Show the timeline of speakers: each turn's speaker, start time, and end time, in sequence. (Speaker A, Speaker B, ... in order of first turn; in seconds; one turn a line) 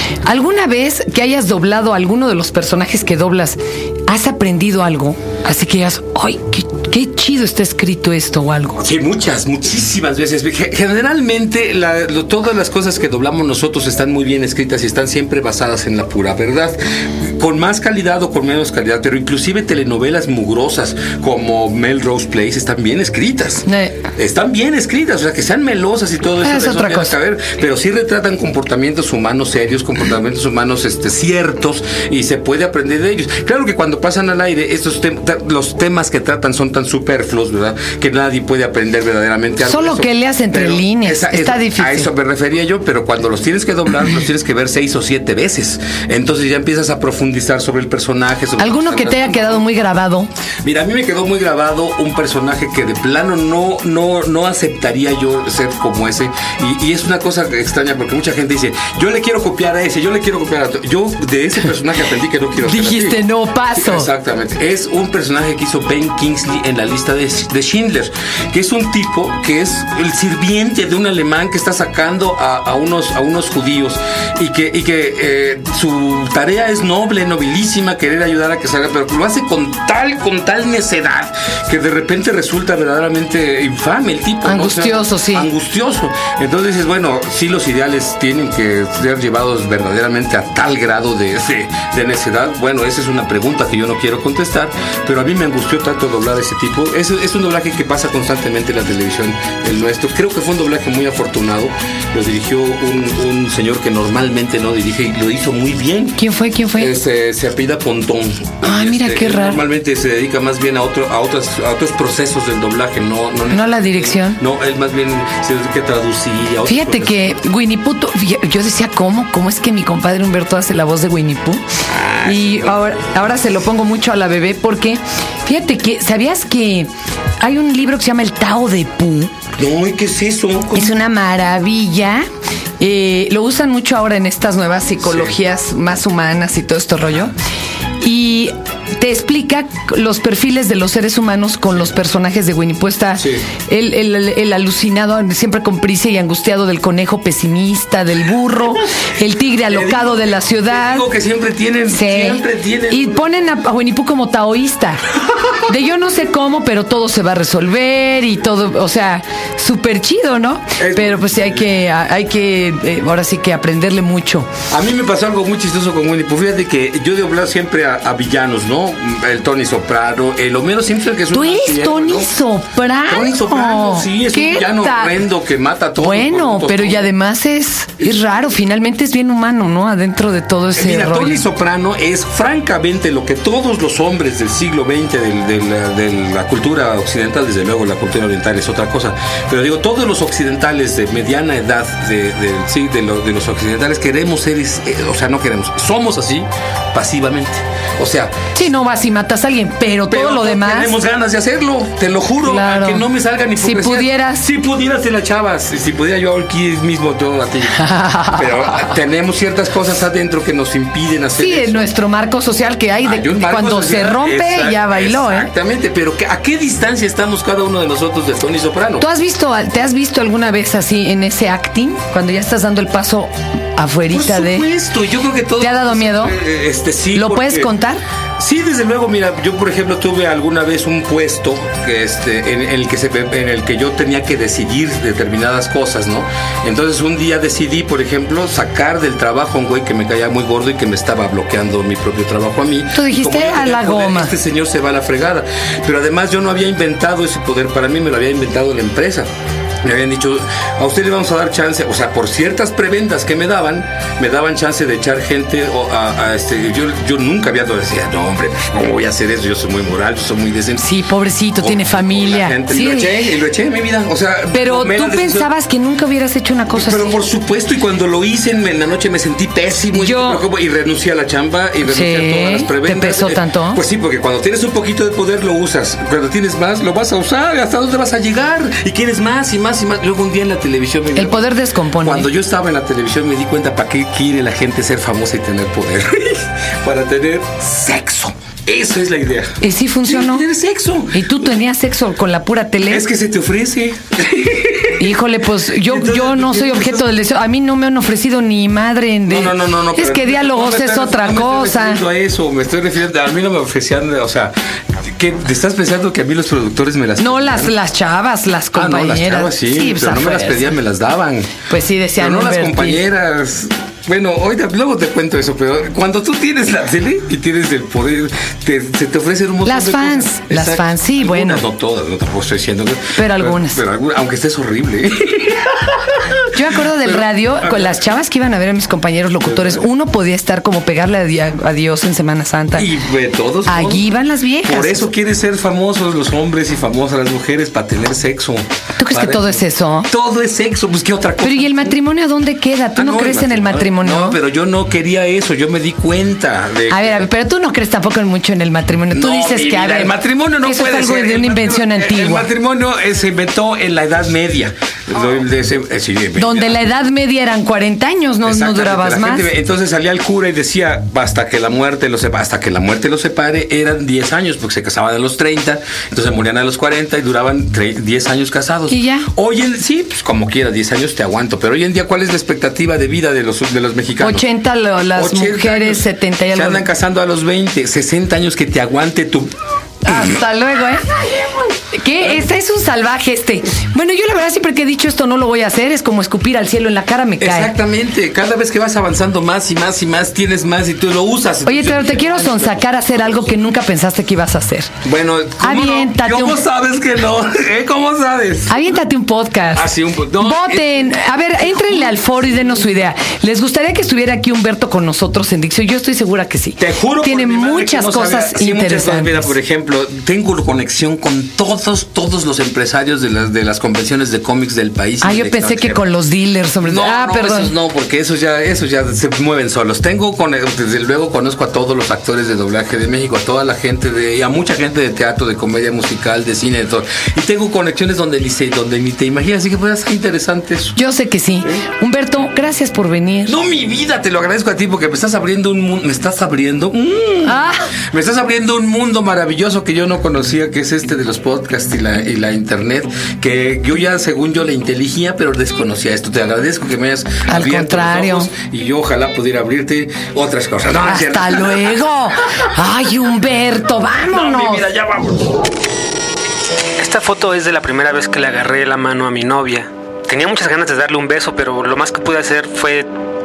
Speaker A: 0.2-8.8
Speaker B: 8.8-49.6
Speaker A: 23.7-24.0
Speaker A: 26.4-27.1
Speaker A: 39.6-42.1
Speaker A: 48.6-50.3
Speaker B: 50.6-63.2
Speaker A: 62.6-64.1
Speaker B: 63.7-106.2
Speaker A: 84.4-85.5
Speaker A: 106.2-106.9
Speaker B: 106.8-117.3
Speaker A: 108.6-109.6
Speaker A: 113.5-114.4
Speaker A: 116.7-121.6
Speaker B: 121.9-123.1
Speaker A: 122.2-126.9
Speaker A: 127.4-129.3
Speaker B: 129.6-130.9
Speaker A: 130.7-132.2
Speaker A: 132.8-137.3
Speaker B: 135.0-135.3
Speaker A: 138.0-151.0
Speaker B: 143.2-143.4
Speaker B: 149.7-153.3
Speaker A: 151.9-155.0
Speaker A: 155.6-164.5
Speaker B: 160.8-161.7
Speaker B: 164.7-172.3
Speaker A: 171.3-175.1
Speaker B: 173.1-177.1
Speaker A: 176.0-181.4
Speaker B: 180.8-198.3
Speaker A: 198.5-200.9
Speaker B: 200.1-211.9
Speaker A: 202.4-203.1
Speaker A: 203.6-204.4
Speaker A: 207.8-208.4
Speaker A: 211.4-215.5
Speaker B: 213.0-219.0
Speaker A: 219.0-224.6
Speaker B: 224.1-227.7
Speaker A: 225.6-226.4
Speaker A: 227.1-228.0
Speaker B: 228.4-249.3
Speaker A: 242.9-244.3
Speaker B: 249.8-260.8
Speaker A: 260.8-263.3
Speaker B: 261.6-265.5
Speaker A: 264.5-267.1
Speaker B: 266.7-291.4
Speaker A: 269.9-270.4
Speaker A: 271.8-273.8
Speaker A: 281.1-282.3
Speaker A: 289.6-290.4
Speaker A: 291.1-293.0
Speaker B: 292.9-295.1
Speaker A: 295.0-302.0
Speaker B: 295.8-297.1
Speaker B: 299.3-307.7
Speaker A: 307.2-310.7
Speaker B: 308.7-311.5
Speaker A: 311.7-313.0
Speaker B: 312.2-328.0
Speaker A: 319.6-321.6
Speaker A: 323.1-323.8
Speaker A: 326.5-332.9
Speaker B: 329.4-329.8
Speaker B: 332.8-334.1
Speaker A: 333.6-335.1
Speaker B: 334.6-342.0
Speaker A: 339.0-340.1
Speaker A: 341.4-344.4
Speaker B: 342.9-347.3
Speaker A: 346.9-352.5
Speaker B: 349.1-356.8
Speaker A: 356.4-359.5
Speaker B: 358.4-374.4
Speaker A: 368.9-369.3
Speaker A: 374.2-376.8
Speaker B: 375.1-379.5
Speaker A: 380.0-381.2
Speaker B: 380.1-380.3
Speaker A: 381.9-387.7
Speaker B: 387.4-393.5
Speaker A: 391.6-394.9
Speaker B: 395.0-398.8
Speaker A: 395.6-396.6
Speaker A: 398.7-399.9
Speaker B: 399.7-401.1
Speaker A: 400.4-409.5
Speaker B: 406.8-416.0
Speaker A: 415.2-417.7
Speaker B: 416.8-430.9
Speaker A: 430.9-433.6
Speaker B: 433.4-452.0
Speaker A: 437.4-437.9
Speaker A: 447.5-448.5
Speaker A: 451.0-454.8
Speaker B: 454.3-455.6
Speaker C: 457.0-463.1